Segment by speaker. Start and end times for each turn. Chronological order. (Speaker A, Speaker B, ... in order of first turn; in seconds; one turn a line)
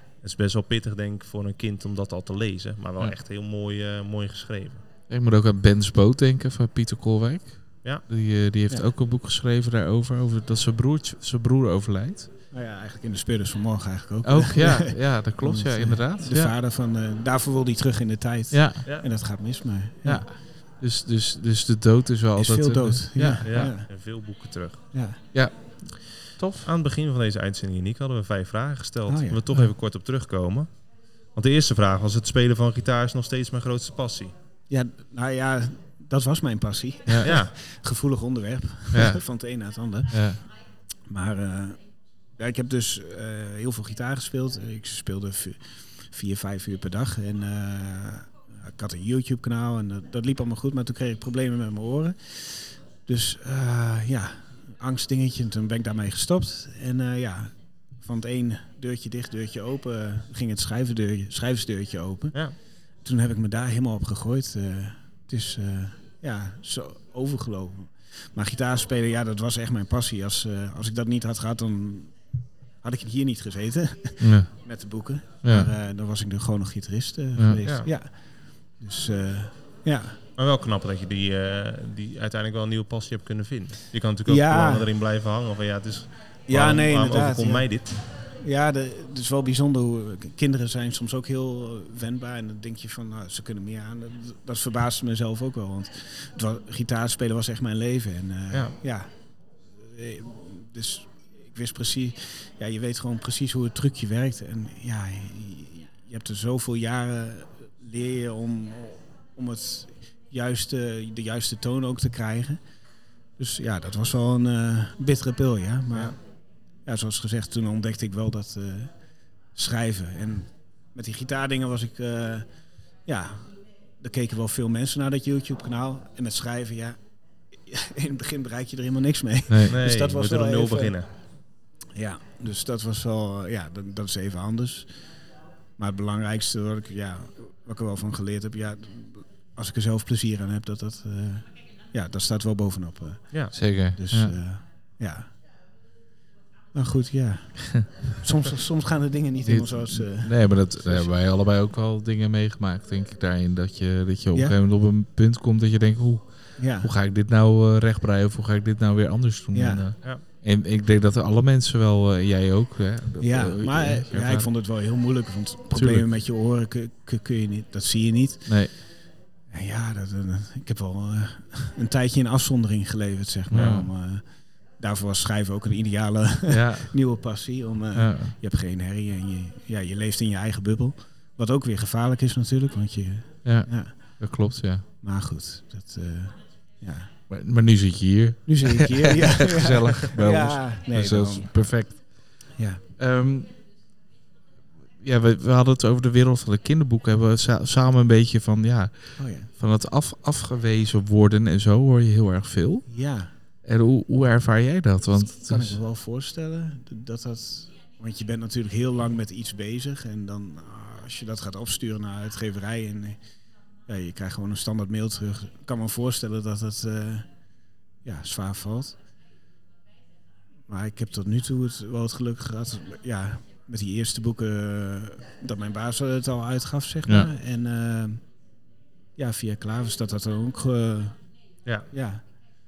Speaker A: 0.2-4.8
Speaker B: 5.1-12.3
Speaker C: 12.5-20.3
Speaker B: 14.2-16.6
Speaker B: 18.5-18.9
Speaker B: 20.1-23.7
Speaker C: 22.4-23.9
Speaker A: 23.4-24.9
Speaker C: 24.9-25.2
Speaker B: 25.3-26.7
Speaker A: 26.6-30.7
Speaker C: 29.1-29.4
Speaker A: 31.4-34.3
Speaker C: 34.7-40.5
Speaker B: 37.1-37.3
Speaker A: 37.2-37.5
Speaker B: 38.9-39.2
Speaker B: 40.1-40.4
Speaker C: 41.1-41.8
Speaker C: 42.3-72.2
Speaker C: 72.8-80.2
Speaker B: 74.2-74.5
Speaker B: 75.4-75.7
Speaker B: 77.4-77.6
Speaker A: 77.7-77.9
Speaker A: 80.4-88.0
Speaker C: 84.3-84.9
Speaker C: 86.5-99.1
Speaker C: 99.8-112.6
Speaker C: 113.4-116.2
Speaker C: 116.8-118.9
Speaker C: 119.5-122.5
Speaker C: 123.0-127.0
Speaker C: 127.5-131.0
Speaker B: 129.5-129.7
Speaker A: 129.7-131.1
Speaker C: 131.9-135.1
Speaker C: 135.8-145.3
Speaker A: 143.3-143.6
Speaker B: 143.5-144.4
Speaker C: 146.7-151.1
Speaker B: 149.4-164.5
Speaker C: 156.6-156.9
Speaker C: 159.5-159.8
Speaker C: 163.2-168.9
Speaker B: 165.7-166.1
Speaker B: 168.5-168.7
Speaker C: 169.5-184.2
Speaker B: 173.5-173.9
Speaker B: 176.5-177.0
Speaker B: 177.9-178.3
Speaker B: 183.4-184.8
Speaker C: 185.0-187.1
Speaker B: 187.3-192.4
Speaker C: 188.5-191.7
Speaker C: 192.6-192.8
Speaker B: 193.0-193.5
Speaker B: 195.0-202.9
Speaker C: 199.2-199.5
Speaker C: 202.9-203.3
Speaker B: 203.6-205.8
Speaker C: 205.4-213.2
Speaker C: 213.9-217.3
Speaker C: 218.0-219.0
Speaker C: 220.7-228.2
Speaker C: 229.2-231.2
Speaker C: 231.9-232.2